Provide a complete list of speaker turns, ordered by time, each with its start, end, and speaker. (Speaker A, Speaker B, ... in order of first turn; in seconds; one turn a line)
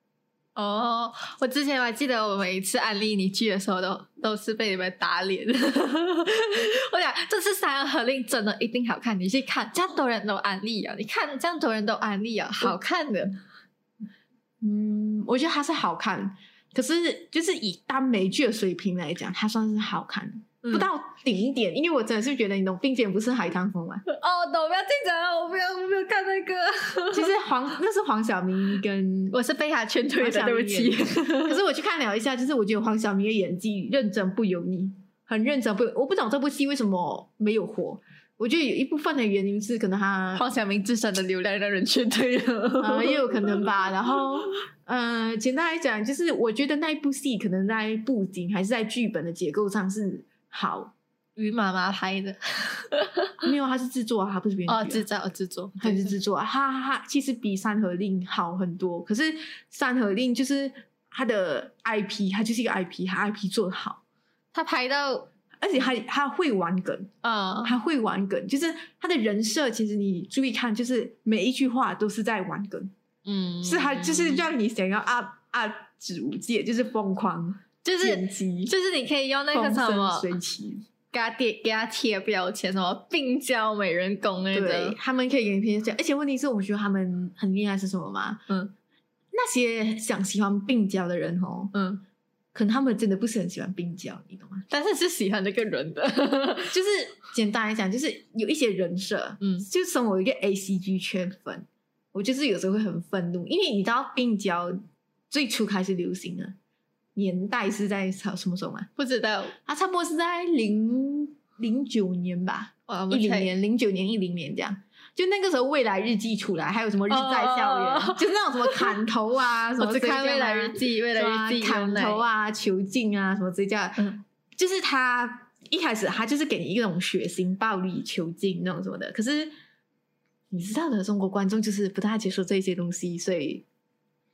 Speaker A: 0.6-13.4
Speaker B: 14.6-24.0
Speaker A: 20.6-20.9
Speaker A: 24.1-27.3
Speaker B: 27.1-29.4
Speaker A: 29.3-31.6
Speaker B: 30.2-40.4
Speaker A: 40.4-43.9
Speaker B: 42.8-50.9
Speaker A: 51.4-53.4
Speaker B: 53.4-55.0
Speaker A: 54.7-56.1
Speaker B: 55.8-64.0
Speaker A: 64.5-65.3
Speaker B: 65.6-67.1
Speaker A: 67.2-67.8
Speaker B: 67.6-72.9
Speaker A: 73.2-74.5
Speaker B: 73.6-78.7
Speaker A: 77.8-80.3
Speaker B: 79.5-80.8
Speaker A: 81.1-85.0
Speaker B: 84.5-88.5
Speaker B: 89.3-91.7
Speaker A: 91.7-92.0
Speaker B: 92.5-94.7
Speaker A: 94.7-96.8
Speaker B: 96.7-104.8
Speaker A: 99.4-99.7
Speaker B: 105.3-106.5
Speaker B: 107.2-108.9
Speaker A: 109.0-109.5
Speaker B: 109.7-129.5
Speaker A: 112.9-113.5
Speaker A: 117.1-119.0
Speaker A: 119.8-122.2
Speaker B: 130.5-133.6